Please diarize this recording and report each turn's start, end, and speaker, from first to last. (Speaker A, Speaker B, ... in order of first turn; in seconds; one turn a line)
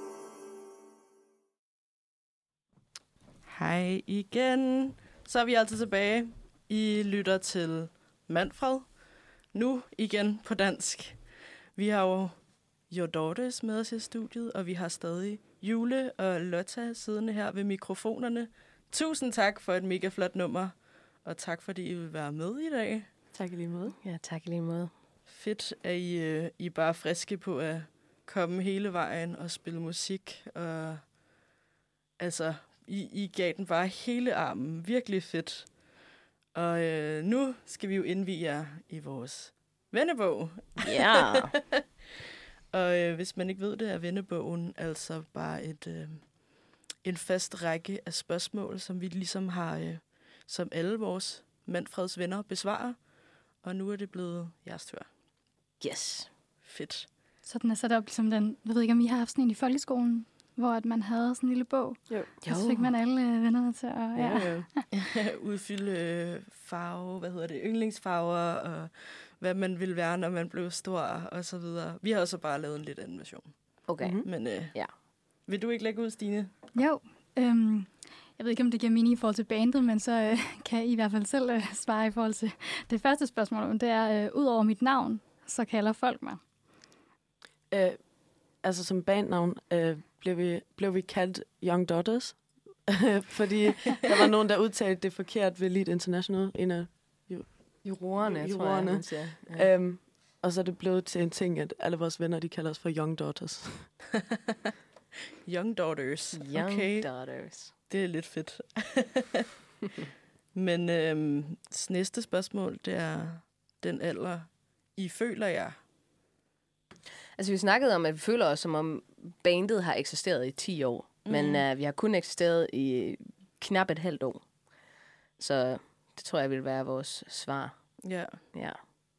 Speaker A: 3.4-23.1
Speaker B: 23.3-24.0
Speaker C: 24.0-25.0
Speaker A: 25.3-31.5
Speaker A: 32.2-41.9
Speaker C: 40.8-41.6
Speaker A: 42.7-55.1
Speaker C: 55.8-56.3
Speaker A: 56.6-57.1
Speaker D: 57.4-64.8
Speaker C: 62.5-62.9
Speaker A: 64.2-76.5
Speaker C: 73.9-74.9
Speaker B: 74.0-74.3
Speaker D: 76.7-86.4
Speaker B: 87.7-103.9
Speaker C: 97.8-99.7
Speaker A: 105.5-109.3
Speaker C: 106.3-107.8
Speaker A: 110.5-115.8
Speaker C: 117.4-128.8
Speaker A: 121.2-121.6
Speaker A: 128.1-128.5